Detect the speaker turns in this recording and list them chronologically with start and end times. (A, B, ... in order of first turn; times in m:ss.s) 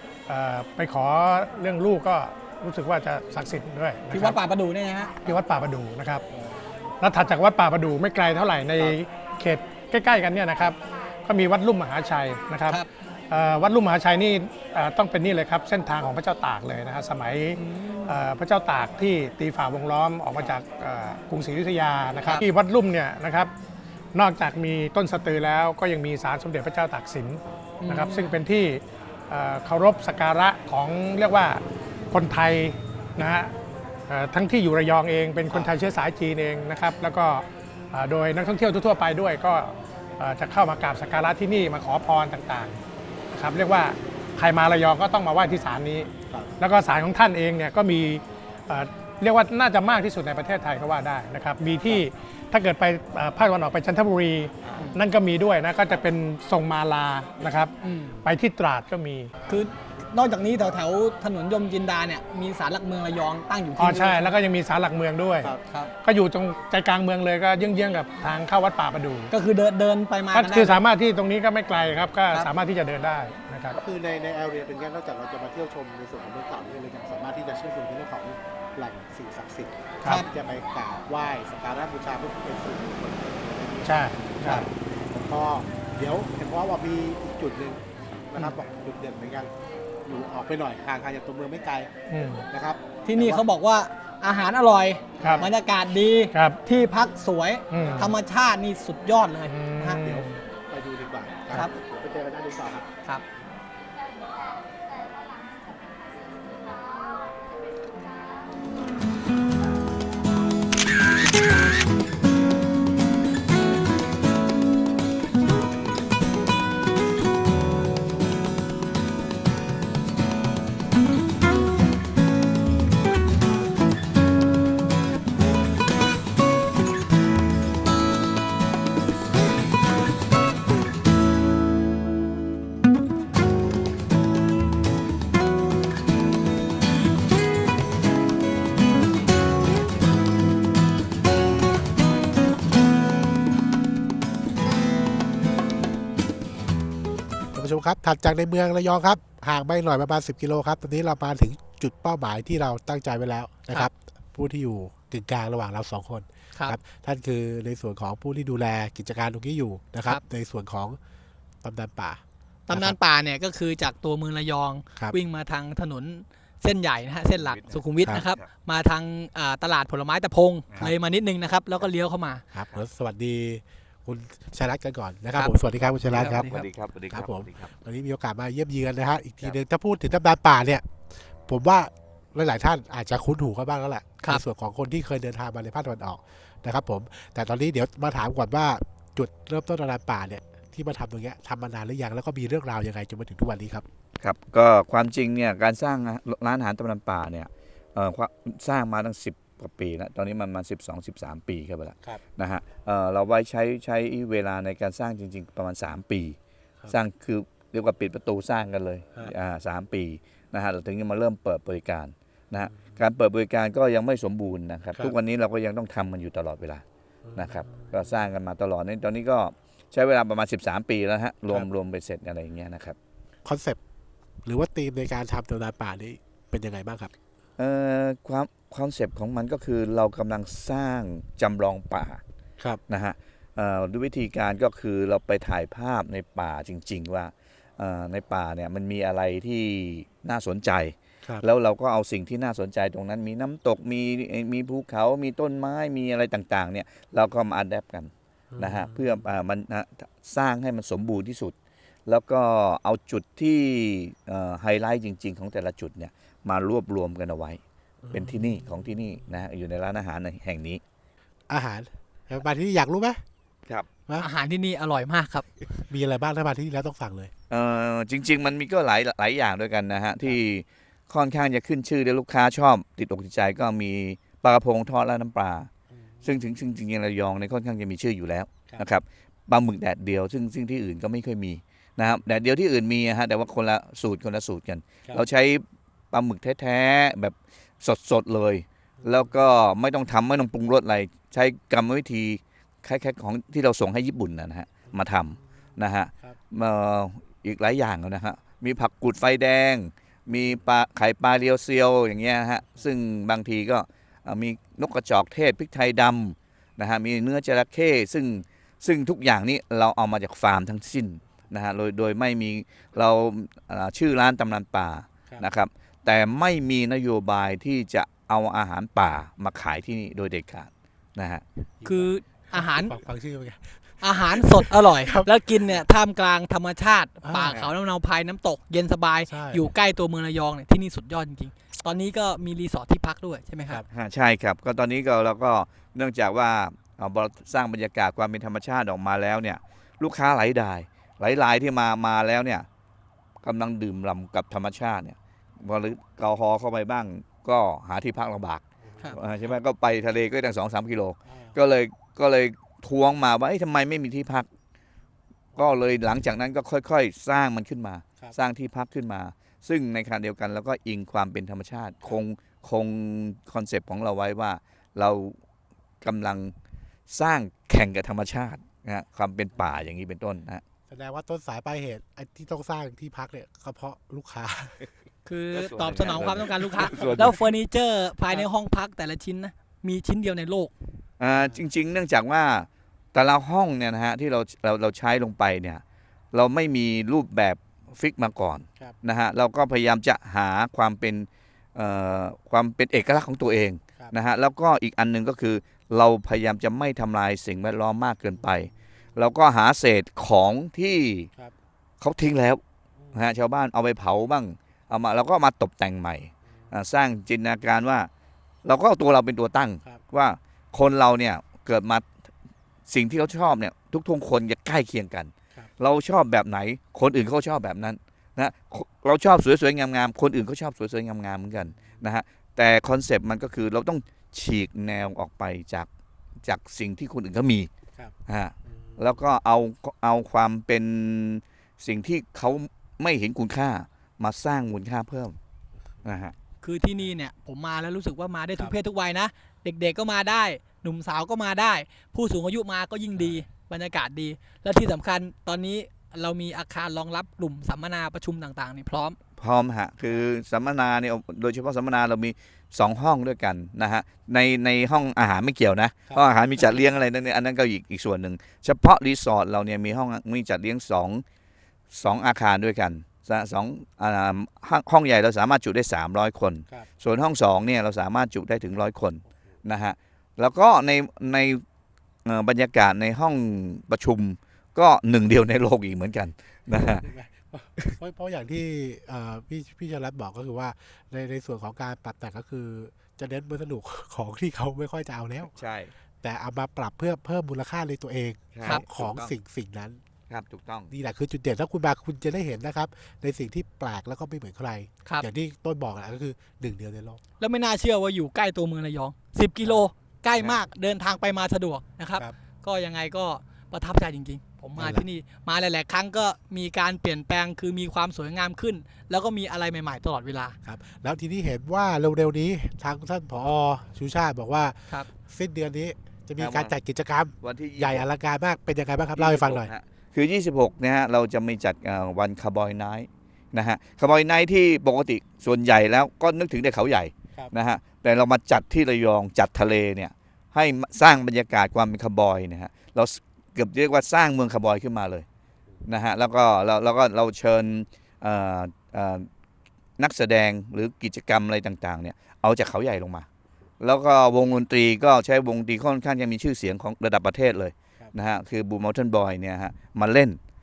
0:00.3-0:04.4 A
0:04.1-0:05.1 B
0:05.2-0:06.2 A
0:06.3-0:06.7 C
0:07.0-0:23.5 A
0:17.6-0:18.2 B
0:24.1-0:33.5 A
0:27.8-0:28.4 B
0:34.1-0:42.8 A
0:43.3-0:59.3 A
0:57.8-0:58.2 B
0:59.5-1:04.3 B
1:03.8-1:05.5 A
1:06.0-1:09.3 A
1:09.3-1:10.8 B
1:10.3-1:13.8 A
1:13.7-1:29.5 C
1:23.8-1:24.7 A
1:30.0-1:31.9 C
1:32.1-1:32.5 A
1:32.5-1:33.4 C
1:33.0-1:40.0 B
1:35.2-1:35.5 A
1:35.2-1:35.5 C
1:36.3-1:36.6 A
1:37.7-1:38.1 A
1:37.8-1:38.1 C
1:39.5-1:40.4 A
1:40.0-1:42.8 C
2:27.5-2:41.0 C
2:41.6-2:43.0 C
2:42.7-2:52.4 B
2:47.3-2:48.5 D
2:52.5-2:56.5 C
2:56.1-2:56.7 B
2:56.1-2:57.7 D
2:57.1-3:00.9 C
3:01.5-3:13.8 C
3:14.2-3:26.4 D
3:26.9-3:36.8 D
3:37.2-3:38.2 C
3:37.3-3:43.0 D
3:43.4-3:43.8 C
3:44.4-3:47.1 C
3:47.6-3:52.2 D
3:52.9-4:11.5 D
4:08.5-4:09.2 C
4:12.1-4:17.6 D
4:18.0-4:18.9 C
4:18.1-4:20.8 D
4:21.5-4:23.2 C
4:24.2-4:25.4 B
4:25.7-4:27.3 C
4:27.5-4:35.7 D
4:35.9-4:36.4 C
4:36.2-5:21.4 D
4:49.0-4:49.3 C
5:00.3-5:00.6 C
5:21.8-5:25.8 C
5:21.8-5:22.9 B
5:24.0-5:33.8 B
5:27.2-5:27.6 C
5:29.3-5:29.7 C
5:33.9-5:42.6 D
5:43.4-5:54.5 D
5:48.8-5:49.3 C
5:51.3-5:51.6 C
5:55.5-5:55.8 C
5:55.6-6:05.4 D
6:06.0-6:06.5 D
6:07.1-6:10.6 D
6:10.9-6:14.8 C
6:15.2-6:20.7 B
6:15.5-6:17.4 D
6:16.8-6:17.3 C
6:21.2-6:25.8 D
6:21.3-6:21.6 C
6:26.3-6:41.3 D
6:38.3-6:38.7 C
6:42.0-6:42.6 D
6:43.0-6:43.2 C
6:43.1-6:48.1 D
6:46.5-6:46.7 C
6:48.6-6:52.0 D
6:52.9-7:05.9 D
7:01.7-7:02.1 C
7:06.4-7:07.7 D
7:08.3-7:15.4 D
7:08.6-7:09.2 C
7:16.0-7:16.3 D
7:16.6-7:29.2 B
7:23.2-7:23.4 C
7:29.4-7:41.2 D
7:41.9-7:51.6 D
7:52.2-7:57.0 D
7:56.7-8:05.5 C
8:05.5-8:05.9 D
8:06.2-8:10.0 C
8:08.5-8:09.3 D
8:10.3-8:10.9 D
8:10.9-8:17.2 C
8:17.4-8:30.6 B
8:24.8-8:25.0 C
8:30.6-8:39.7 C
8:36.4-8:36.7 D
8:37.4-8:38.0 D
8:39.2-8:55.2 D
8:55.9-8:59.3 D
9:00.0-9:03.2 D
9:03.8-9:10.4 D